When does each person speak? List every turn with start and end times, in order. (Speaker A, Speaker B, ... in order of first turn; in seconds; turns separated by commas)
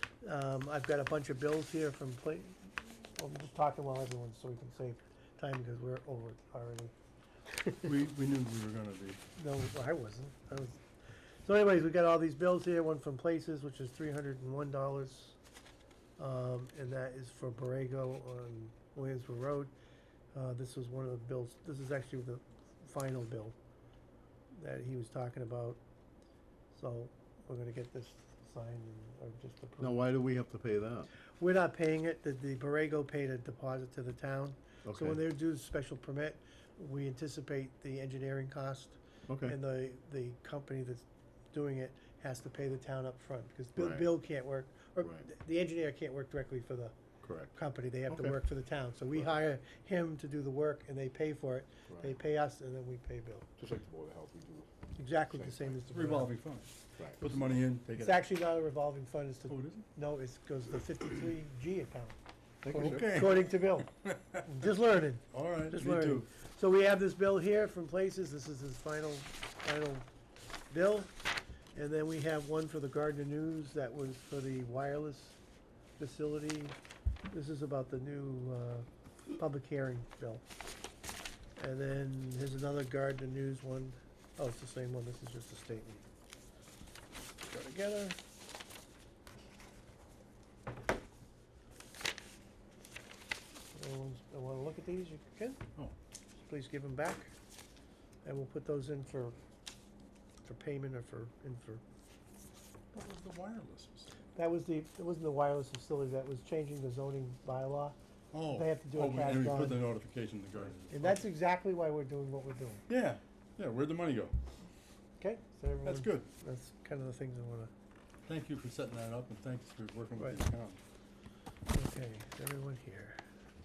Speaker A: 0.2-6.9, Speaker B: 7.8-9.2, Speaker A: 9.4-10.8, Speaker A: 11.4-15.4, Speaker A: 16.2-19.7, Speaker A: 20.3-23.6, Speaker A: 24.5-25.8, Speaker A: 26.7-30.0, Speaker C: 29.8-31.1, Speaker A: 31.4-47.0, Speaker C: 34.8-35.2, Speaker C: 39.3-39.5, Speaker C: 43.8-44.1, Speaker C: 47.2-47.5, Speaker A: 47.5-53.5, Speaker C: 48.1-48.4, Speaker C: 49.1-49.4, Speaker C: 51.9-52.1, Speaker C: 53.6-55.8, Speaker A: 55.0-56.3, Speaker B: 55.9-58.2, Speaker A: 57.9-62.2, Speaker B: 59.5-59.9, Speaker C: 62.6-63.3, Speaker B: 62.7-64.4, Speaker A: 62.8-70.1, Speaker B: 65.3-66.3, Speaker A: 70.7-71.1, Speaker A: 71.7-75.4, Speaker A: 76.0-76.8, Speaker A: 77.3-80.4, Speaker A: 81.6-86.0, Speaker A: 87.5-88.2, Speaker A: 93.7-95.6, Speaker A: 96.4-97.3, Speaker A: 98.2-99.4, Speaker A: 100.4-101.8, Speaker B: 102.9-104.1, Speaker A: 104.3-108.0, Speaker B: 108.3-111.3, Speaker A: 108.5-109.9, Speaker A: 110.9-112.8, Speaker B: 112.9-114.3, Speaker A: 115.2-117.7, Speaker B: 115.8-116.3, Speaker B: 118.2-120.8, Speaker A: 120.1-120.4, Speaker A: 121.7-123.2